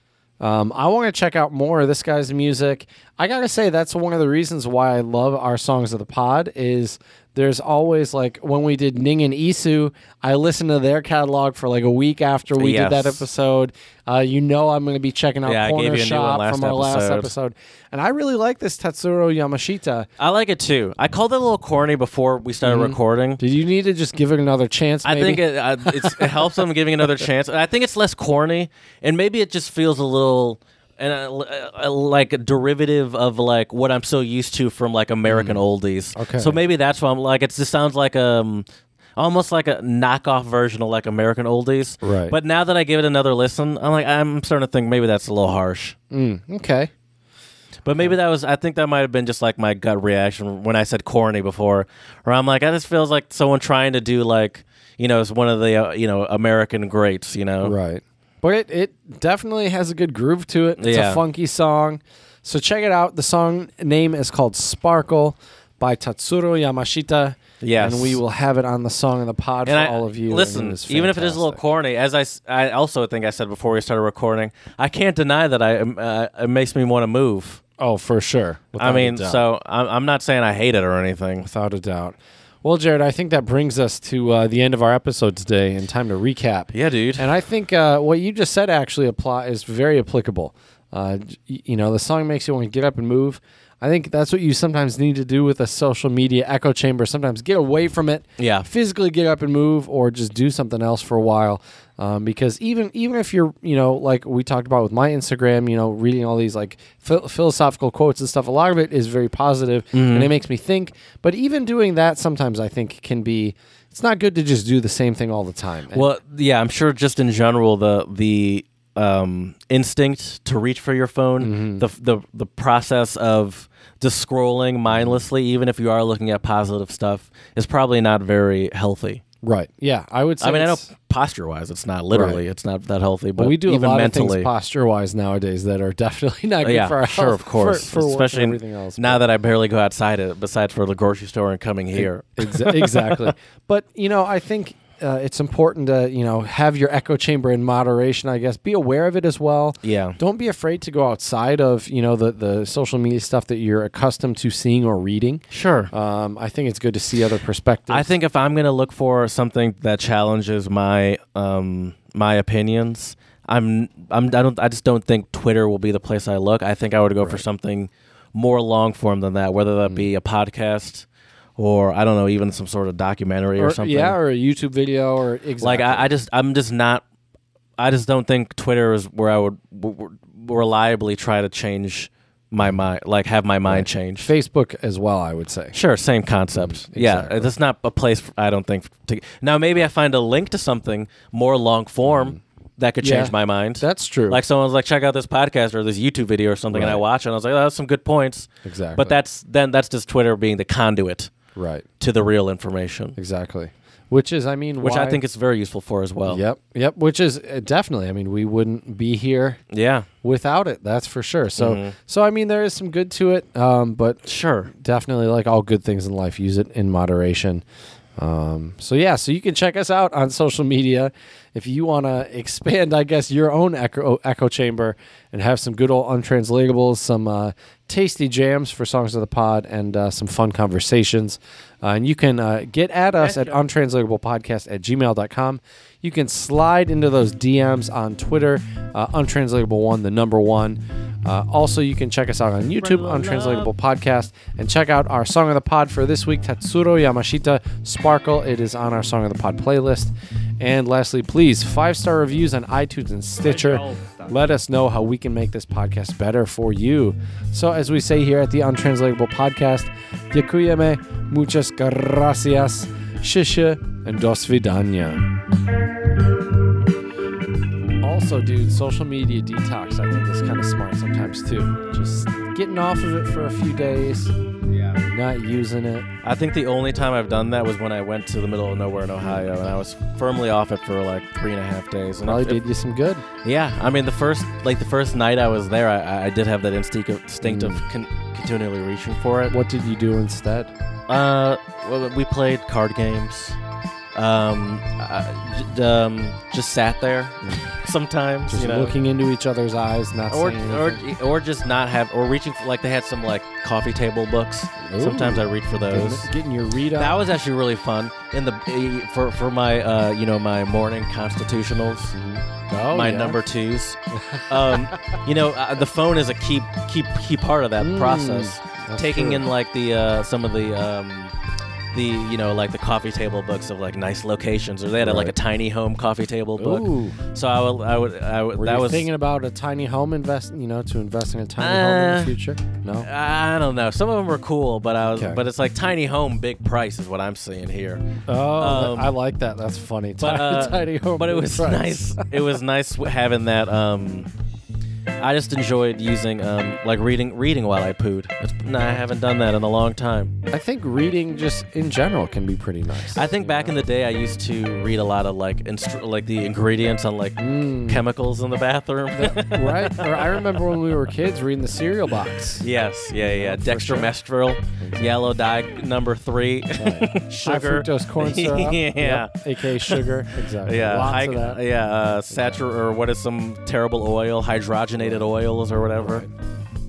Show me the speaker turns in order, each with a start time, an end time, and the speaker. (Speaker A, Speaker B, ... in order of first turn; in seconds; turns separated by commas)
Speaker A: 0.4-20.1, Speaker B: 12.6-13.2, Speaker B: 15.4-17.3, Speaker B: 20.2-23.4, Speaker A: 22.6-26.5, Speaker B: 25.1-38.7, Speaker A: 35.3-35.6, Speaker A: 36.1-36.6, Speaker B: 39.2-46.0, Speaker A: 42.0-42.4, Speaker A: 46.1-46.9, Speaker B: 47.9-57.8, Speaker A: 57.6-71.6, Speaker B: 60.8-61.2, Speaker B: 67.6-68.2, Speaker B: 69.7-77.6, Speaker A: 77.8-79.4, Speaker B: 78.8-81.5, Speaker A: 81.4-116.1, Speaker B: 86.7-87.2, Speaker B: 98.4-98.7, Speaker B: 109.9-110.3, Speaker B: 115.9-129.2, Speaker A: 121.4-121.8, Speaker A: 124.9-125.2, Speaker A: 129.4-130.9, Speaker B: 130.4-134.5, Speaker A: 132.1-132.4, Speaker A: 133.4-139.3, Speaker B: 136.6-143.3, Speaker A: 142.0-158.1, Speaker B: 149.8-150.2, Speaker B: 155.5-155.9, Speaker B: 157.9-171.1, Speaker B: 171.6-174.2, Speaker A: 173.6-176.1, Speaker B: 175.6-177.0, Speaker B: 177.8-184.3, Speaker A: 183.7-185.8, Speaker B: 185.7-201.3, Speaker A: 186.5-187.5, Speaker A: 193.0-194.4, Speaker A: 196.7-197.0, Speaker A: 198.6-199.2, Speaker A: 201.6-201.8, Speaker B: 202.0-203.2, Speaker A: 203.2-205.2, Speaker B: 204.8-206.4, Speaker A: 206.3-209.6, Speaker B: 209.7-210.1, Speaker A: 210.2-217.6, Speaker B: 211.6-211.9, Speaker B: 214.2-214.7, Speaker A: 218.2-265.2, Speaker B: 242.8-243.7, Speaker A: 268.0-274.4, Speaker B: 274.7-275.0, Speaker A: 275.1-276.1, Speaker B: 276.2-282.6, Speaker A: 279.2-279.5, Speaker A: 282.3-283.2, Speaker B: 283.4-289.6, Speaker A: 287.4-287.9, Speaker A: 289.5-290.7, Speaker B: 291.1-293.6, Speaker B: 294.1-298.9, Speaker A: 297.4-297.7, Speaker A: 298.5-301.0, Speaker B: 300.3-306.3, Speaker A: 304.8-307.2, Speaker B: 306.9-312.1, Speaker A: 312.1-313.4, Speaker B: 312.9-314.0, Speaker A: 314.1-315.1, Speaker B: 314.5-321.3, Speaker A: 317.8-319.5, Speaker B: 321.9-329.1, Speaker A: 325.0-325.3, Speaker A: 326.6-327.2, Speaker A: 328.6-333.1, Speaker B: 331.6-332.4, Speaker B: 333.0-338.1, Speaker A: 335.1-335.4, Speaker A: 338.3-342.3, Speaker B: 338.6-339.1, Speaker B: 340.2-344.3, Speaker B: 345.2-350.4, Speaker A: 350.5-353.7, Speaker B: 353.1-360.6, Speaker A: 357.4-358.0, Speaker A: 359.1-362.7, Speaker B: 362.6-376.2, Speaker A: 363.2-364.1, Speaker A: 364.8-365.1, Speaker A: 366.7-371.6, Speaker A: 372.3-372.6, Speaker A: 375.0-375.2, Speaker A: 376.0-376.3